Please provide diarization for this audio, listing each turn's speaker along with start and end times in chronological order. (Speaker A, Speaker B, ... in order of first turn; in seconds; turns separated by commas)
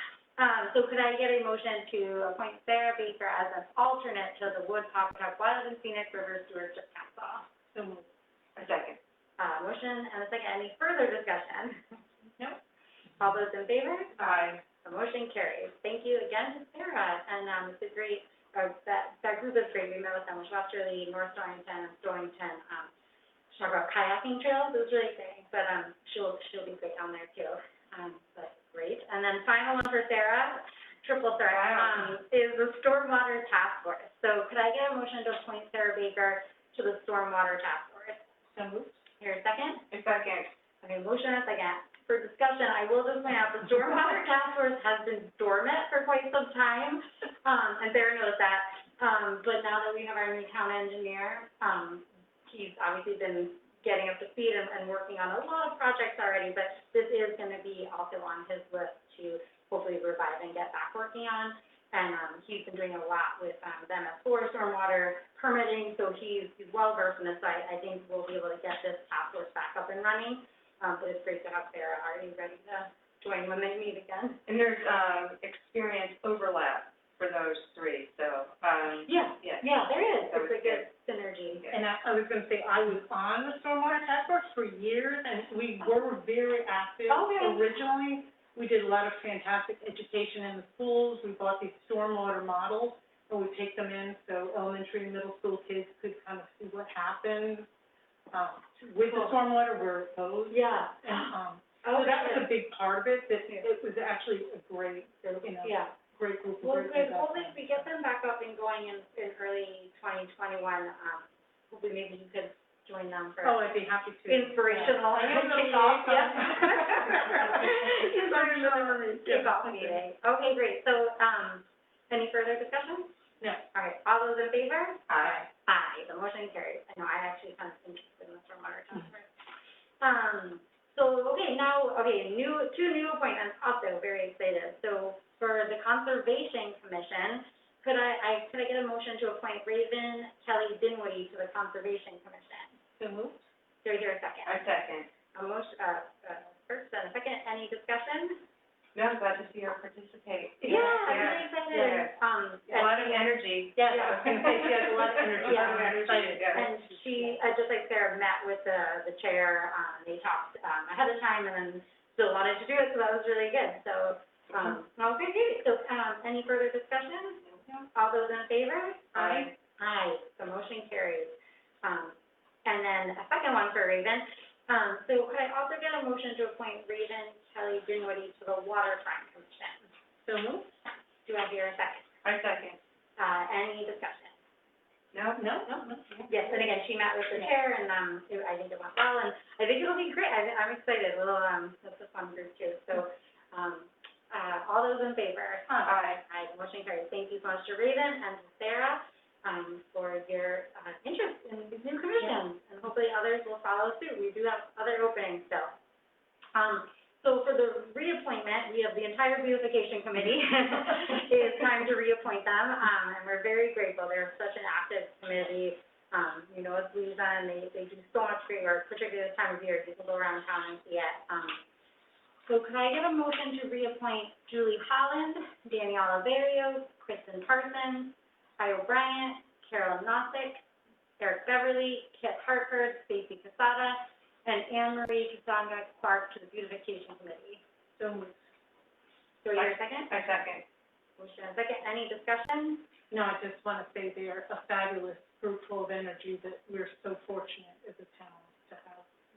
Speaker A: 0.4-7.5, Speaker B: 7.7-8.1, Speaker C: 8.6-9.0, Speaker A: 9.4-11.8, Speaker A: 13.2-22.9, Speaker C: 14.2-14.6, Speaker A: 23.5-38.2, Speaker C: 31.5-32.1, Speaker B: 38.5-39.0, Speaker A: 39.2-39.8, Speaker C: 39.9-40.5, Speaker A: 40.8-74.4, Speaker C: 74.5-80.8, Speaker A: 79.0-81.7, Speaker B: 81.7-97.7, Speaker A: 87.1-87.7, Speaker B: 98.3-107.8, Speaker A: 99.0-99.4, Speaker A: 100.5-102.5, Speaker A: 105.2-105.9, Speaker A: 106.6-113.7, Speaker B: 113.4-119.9, Speaker A: 114.3-123.1, Speaker A: 123.7-129.3, Speaker C: 125.1-125.4, Speaker A: 130.0-142.7, Speaker B: 143.0-143.4, Speaker A: 143.8-144.6, Speaker C: 144.4-145.1, Speaker A: 145.3-148.4, Speaker C: 148.9-152.1, Speaker A: 150.6-153.2, Speaker B: 150.7-151.5, Speaker C: 152.7-156.7, Speaker B: 153.8-157.4, Speaker A: 153.8-154.7, Speaker A: 155.4-179.8, Speaker C: 169.1-169.5, Speaker B: 180.2-180.7, Speaker A: 181.2-182.1, Speaker C: 182.2-182.8, Speaker A: 183.2-184.3, Speaker C: 185.1-185.8, Speaker B: 185.4-186.3, Speaker A: 186.2-205.7, Speaker B: 195.7-195.9, Speaker C: 195.8-196.2, Speaker A: 206.5-221.6, Speaker A: 222.5-230.6, Speaker A: 231.2-237.6, Speaker B: 238.0-238.3, Speaker A: 239.4-240.1, Speaker C: 239.5-240.6, Speaker A: 241.2-242.9, Speaker B: 243.1-249.0